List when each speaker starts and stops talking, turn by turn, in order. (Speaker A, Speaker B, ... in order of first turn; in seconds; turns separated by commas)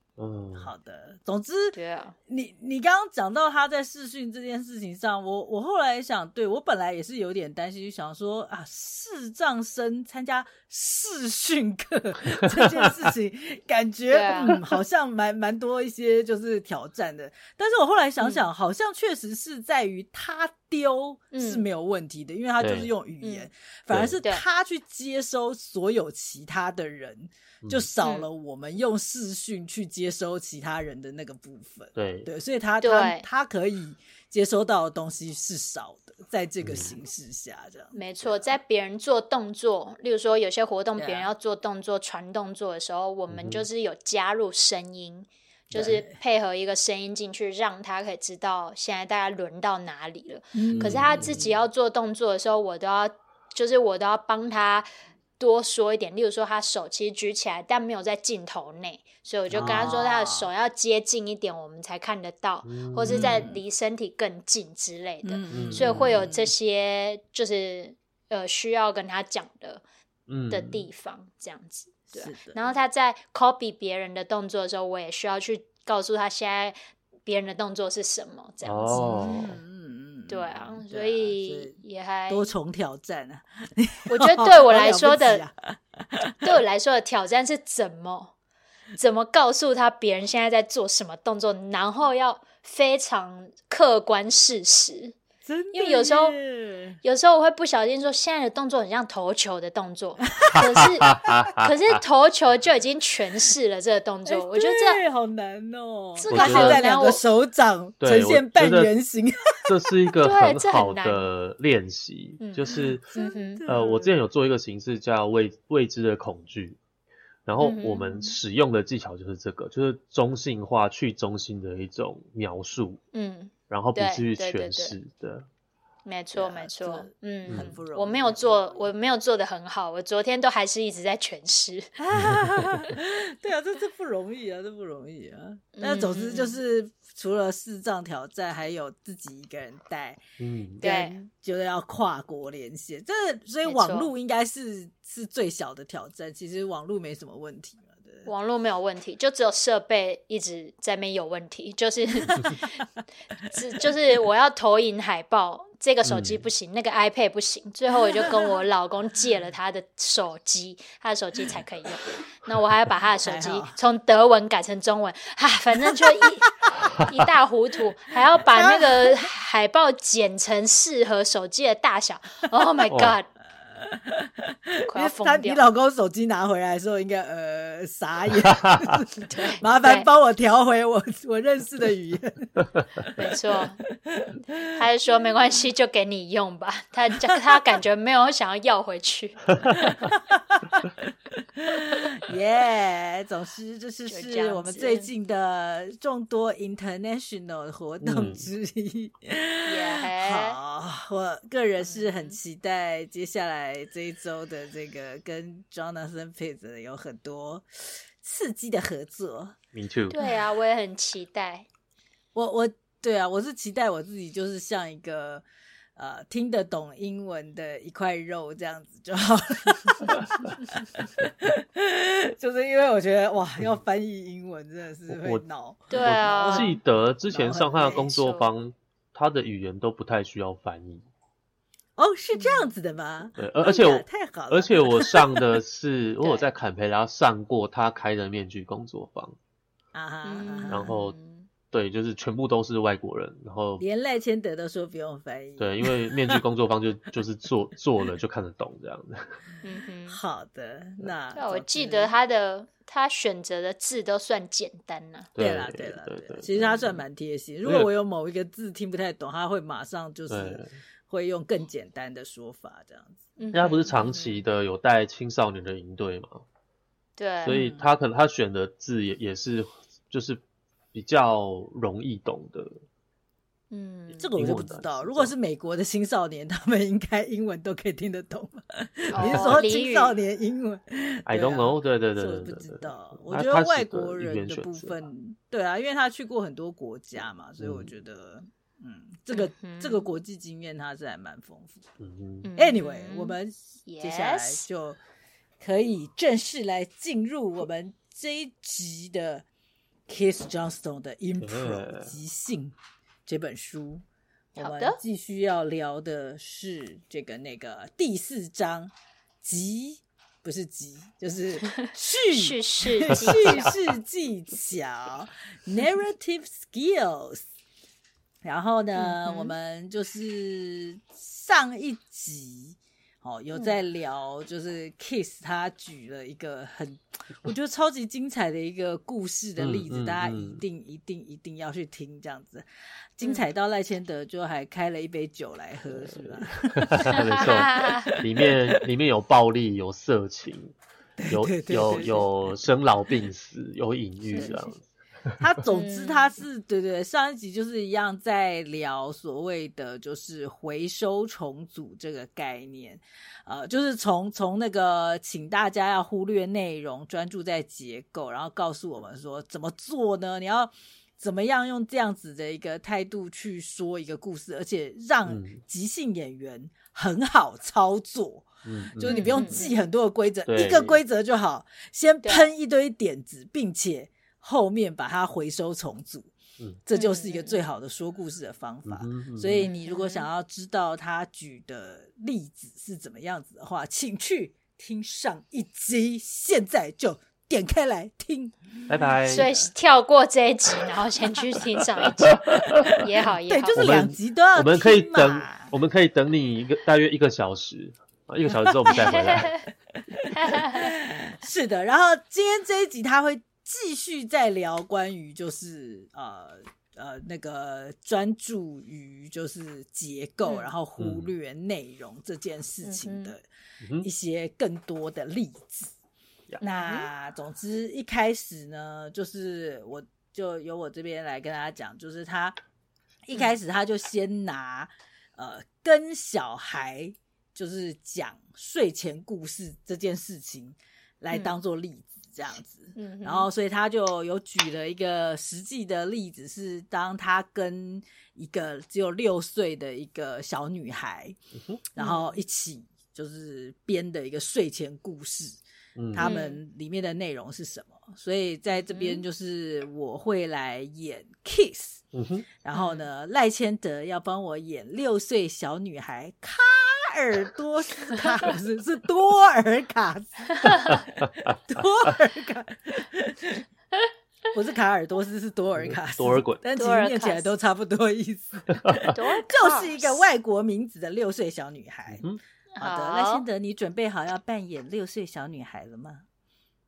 Speaker A: 0.2-0.7, Speaker B: 0.6-38.3, Speaker C: 1.8-2.1, Speaker C: 14.1-14.6, Speaker C: 18.2-18.5, Speaker C: 21.3-21.6, Speaker A: 22.6-22.9, Speaker C: 23.2-23.5, Speaker A: 23.9-24.2, Speaker C: 28.0-28.3, Speaker A: 32.0-32.3, Speaker C: 32.8-33.3, Speaker A: 36.6-36.9, Speaker C: 37.9-54.9, Speaker B: 41.0-41.3, Speaker A: 43.3-43.6, Speaker B: 45.7-46.1, Speaker B: 50.5-51.5, Speaker A: 50.8-51.5, Speaker C: 55.4-69.8, Speaker A: 59.5-59.9, Speaker B: 59.5-60.5, Speaker A: 62.6-63.5, Speaker B: 63.1-63.6, Speaker B: 65.2-66.5, Speaker A: 65.5-66.3, Speaker A: 70.3-70.9, Speaker C: 70.5-79.3, Speaker B: 72.1-72.8, Speaker A: 78.6-79.6, Speaker B: 78.9-81.8, Speaker C: 80.3-82.5, Speaker B: 82.3-86.5, Speaker C: 84.1-85.4, Speaker C: 86.4-88.3, Speaker C: 89.0-95.2, Speaker B: 95.5-97.0, Speaker C: 95.7-96.4, Speaker C: 97.0-105.0, Speaker B: 100.4-100.9, Speaker A: 100.5-101.7, Speaker B: 104.3-110.1, Speaker C: 106.2-107.2, Speaker A: 106.3-106.8, Speaker A: 108.0-108.9, Speaker A: 109.7-113.0, Speaker C: 110.2-111.3, Speaker C: 112.4-113.7, Speaker B: 112.7-114.2, Speaker A: 113.7-116.8, Speaker A: 117.5-123.0, Speaker C: 117.6-118.4, Speaker C: 123.1-125.0, Speaker A: 123.7-125.5, Speaker C: 126.0-131.9, Speaker B: 126.3-128.9, Speaker A: 127.5-127.8, Speaker B: 132.0-140.2, Speaker A: 132.2-132.4, Speaker C: 135.8-136.6, Speaker A: 140.4-140.8, Speaker B: 140.8-148.3, Speaker C: 140.8-141.2, Speaker C: 143.7-144.1, Speaker C: 148.2-152.8, Speaker C: 153.4-173.3, Speaker A: 156.1-156.4, Speaker B: 158.1-158.6, Speaker B: 163.2-163.8, Speaker B: 165.8-166.3, Speaker B: 168.5-169.3, Speaker B: 173.8-182.6, Speaker C: 174.9-175.6, Speaker A: 178.5-179.0, Speaker C: 179.2-180.1, Speaker C: 183.2-183.8, Speaker B: 183.2-184.7, Speaker C: 184.7-189.8, Speaker B: 189.9-209.6, Speaker C: 194.1-195.1, Speaker A: 198.0-198.5, Speaker C: 199.7-200.6, Speaker C: 201.8-202.3, Speaker A: 209.7-210.2, Speaker C: 210.1-211.7, Speaker B: 212.3-215.4, Speaker B: 216.0-228.2, Speaker A: 225.1-225.4, Speaker C: 225.9-226.8, Speaker A: 226.0-231.1, Speaker C: 227.9-228.5, Speaker B: 232.0-235.5, Speaker C: 232.3-232.7, Speaker A: 233.4-239.4, Speaker C: 236.2-236.5, Speaker B: 239.9-240.9, Speaker C: 240.2-241.5, Speaker A: 240.7-241.2, Speaker A: 241.7-243.8, Speaker B: 243.8-246.4, Speaker A: 245.6-249.4, Speaker C: 249.6-250.2, Speaker B: 250.1-252.1, Speaker C: 251.3-255.3, Speaker A: 255.4-257.0, Speaker B: 255.4-263.3, Speaker A: 257.6-257.9, Speaker A: 260.3-260.7, Speaker C: 263.4-264.4, Speaker A: 263.5-266.4, Speaker C: 267.2-267.6, Speaker A: 267.4-270.4, Speaker B: 267.5-267.9, Speaker A: 270.9-272.7, Speaker C: 273.7-274.3, Speaker B: 274.2-291.9, Speaker A: 274.4-275.3, Speaker C: 279.1-280.2, Speaker A: 279.2-279.6, Speaker A: 281.3-284.9, Speaker A: 287.6-287.9, Speaker C: 289.3-290.1, Speaker A: 292.0-292.5, Speaker C: 292.4-294.7, Speaker B: 292.6-295.0, Speaker B: 295.6-299.4, Speaker B: 300.1-302.8, Speaker A: 301.4-302.1, Speaker B: 303.3-304.0, Speaker B: 304.6-317.4, Speaker C: 304.6-305.0, Speaker C: 311.7-313.8, Speaker B: 318.4-332.7, Speaker C: 318.9-319.5, Speaker C: 323.5-323.8, Speaker A: 329.6-330.6, Speaker B: 333.2-338.8, Speaker A: 335.9-340.7, Speaker C: 337.1-338.1, Speaker B: 341.2-342.6, Speaker A: 341.3-345.4, Speaker B: 344.4-344.7, Speaker B: 345.4-376.3, Speaker C: 345.7-346.3, Speaker A: 365.3-365.6, Speaker A: 368.6-369.6, Speaker C: 369.1-369.8, Speaker A: 370.5-371.0, Speaker C: 372.2-372.5, Speaker B: 376.9-389.7, Speaker C: 376.9-377.6, Speaker A: 378.9-379.7, Speaker C: 379.6-380.3, Speaker A: 388.9-389.5, Speaker C: 389.3-393.9, Speaker A: 392.2-393.0, Speaker B: 392.9-395.7, Speaker A: 393.8-399.5, Speaker B: 398.5-399.4, Speaker C: 398.9-399.6, Speaker B: 400.1-413.4, Speaker C: 400.3-400.9, Speaker C: 410.4-410.7, Speaker A: 411.0-411.3, Speaker C: 412.8-413.3, Speaker A: 413.8-414.1, Speaker B: 414.0-415.9, Speaker C: 416.6-417.1, Speaker B: 416.6-422.6, Speaker B: 423.3-441.4, Speaker C: 431.3-431.6, Speaker C: 433.0-433.5, Speaker A: 441.6-441.8, Speaker B: 441.9-445.6, Speaker C: 442.0-442.4, Speaker A: 446.0-446.4, Speaker B: 446.1-452.0, Speaker C: 446.2-446.6, Speaker C: 448.7-449.2, Speaker A: 452.1-452.5, Speaker B: 452.6-463.6, Speaker C: 452.7-453.1, Speaker C: 460.5-461.0, Speaker B: 464.5-472.2, Speaker A: 465.8-466.6, Speaker C: 466.8-467.5, Speaker A: 468.7-469.1, Speaker C: 469.1-470.2, Speaker C: 472.8-473.5, Speaker B: 472.8-476.2